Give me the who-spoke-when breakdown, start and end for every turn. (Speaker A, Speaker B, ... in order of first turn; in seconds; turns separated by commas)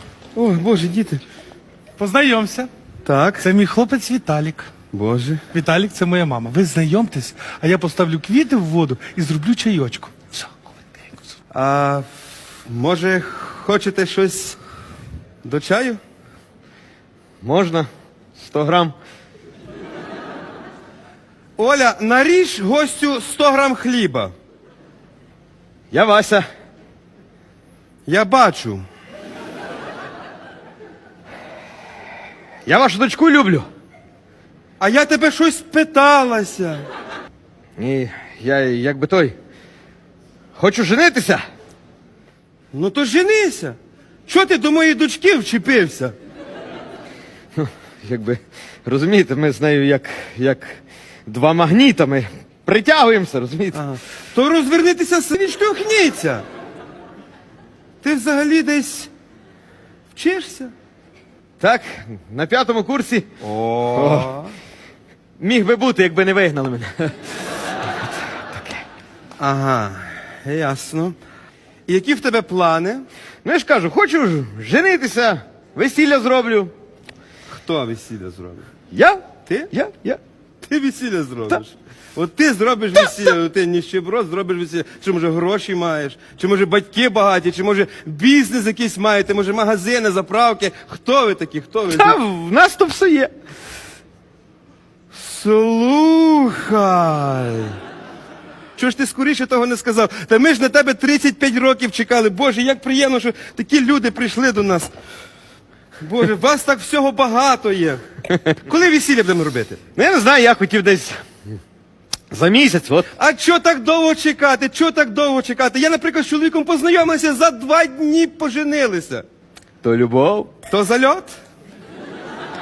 Speaker A: 0.3-1.2, Speaker B: 2.0-2.7, Speaker A: 3.0-3.5, Speaker B: 3.4-4.7, Speaker A: 4.9-5.4, Speaker B: 5.5-11.3, Speaker A: 11.5-12.1, Speaker A: 12.7-14.6, Speaker A: 15.4-16.0, Speaker C: 17.4-19.0, Speaker A: 21.6-24.3, Speaker C: 25.9-26.4, Speaker A: 28.1-28.8, Speaker C: 32.7-33.7, Speaker A: 34.8-36.8, Speaker C: 37.8-39.4, Speaker C: 40.6-41.4, Speaker A: 42.7-46.1, Speaker C: 47.5-53.8, Speaker A: 53.7-56.4, Speaker A: 58.0-59.1, Speaker A: 60.1-60.7, Speaker C: 61.6-63.3, Speaker A: 63.4-64.5, Speaker C: 63.9-64.3, Speaker C: 65.4-67.2, Speaker C: 68.5-68.8, Speaker A: 69.4-71.2, Speaker A: 71.9-73.1, Speaker C: 73.4-76.7, Speaker A: 77.5-78.7, Speaker C: 78.9-80.2, Speaker A: 80.7-92.2, Speaker C: 91.9-93.3, Speaker A: 95.1-97.8, Speaker A: 98.8-104.9, Speaker A: 106.0-108.0, Speaker A: 108.6-109.8, Speaker C: 110.0-111.2, Speaker C: 112.3-113.1, Speaker A: 113.2-119.2, Speaker C: 119.8-120.5, Speaker A: 120.7-121.3